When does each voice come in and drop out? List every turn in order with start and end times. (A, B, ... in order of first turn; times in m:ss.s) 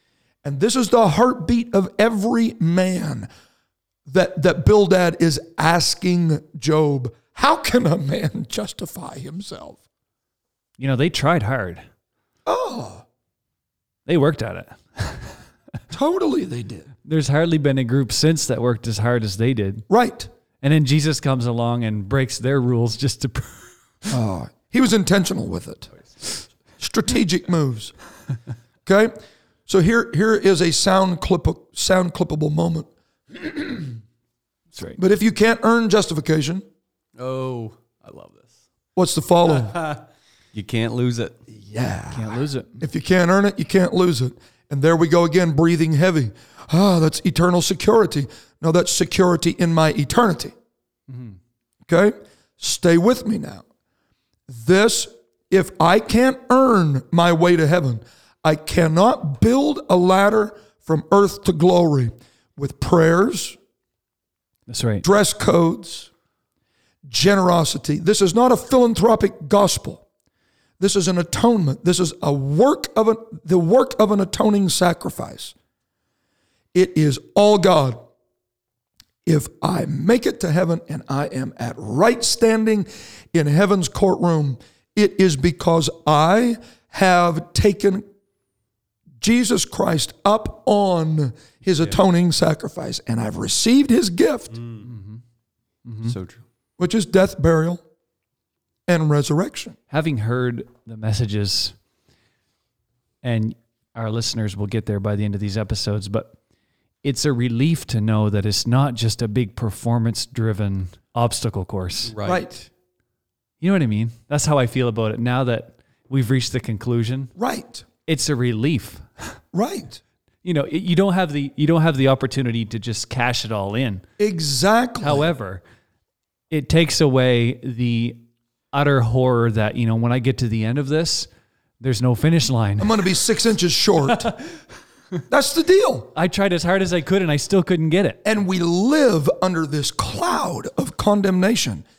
0:00.4-0:03.3 A
0:04.1-0:09.8 A
0:10.8-0:11.8 B
0:12.4-0:13.0 A
0:14.1-0:15.4 B
0:15.9-0:16.9 A
0:17.0-0:19.9 B
0:19.9-0:20.3 A
0:20.6-0:24.1 B
0:24.1-0:27.9 A
0:28.8-0:29.1 A
0:29.7-0:34.0 A
0:34.7-0:35.0 B
0:35.0-0:36.6 A
0:37.2-0:38.5 C
0:39.0-0:39.8 A
0:39.6-0:40.0 C
0:40.5-0:41.4 C
0:41.5-0:50.5 A
0:42.1-0:42.8 B
0:51.1-0:51.4 B
0:51.9-0:53.6 A
0:54.5-1:03.6 A
1:04.7-1:05.0 B
1:05.0-1:06.1 A
1:07.1-1:10.1 A
1:10.8-1:15.6 A
1:16.7-1:18.0 A
1:19.3-1:28.0 A
1:29.2-1:34.6 A
1:34.6-1:34.9 C
1:34.8-1:35.2 B
1:35.9-1:36.1 B
1:36.0-1:36.4 C
1:36.8-1:37.8 A
1:38.9-1:39.8 A
1:39.9-1:41.8 B
1:43.2-1:46.4 B
1:47.0-1:52.1 B
1:52.1-1:52.4 C
1:52.2-1:52.7 A
1:53.6-1:57.3 B
1:57.4-1:57.8 A
1:58.1-1:59.4 B
1:59.5-2:00.0 A
2:00.4-2:04.0 B
2:04.2-2:05.3 A
2:05.0-2:05.6 B
2:06.5-2:08.2 B
2:08.7-2:11.3 B
2:11.8-2:13.0 B
2:12.8-2:14.3 A
2:15.3-2:16.1 A
2:16.1-2:18.2 B
2:18.2-2:21.8 A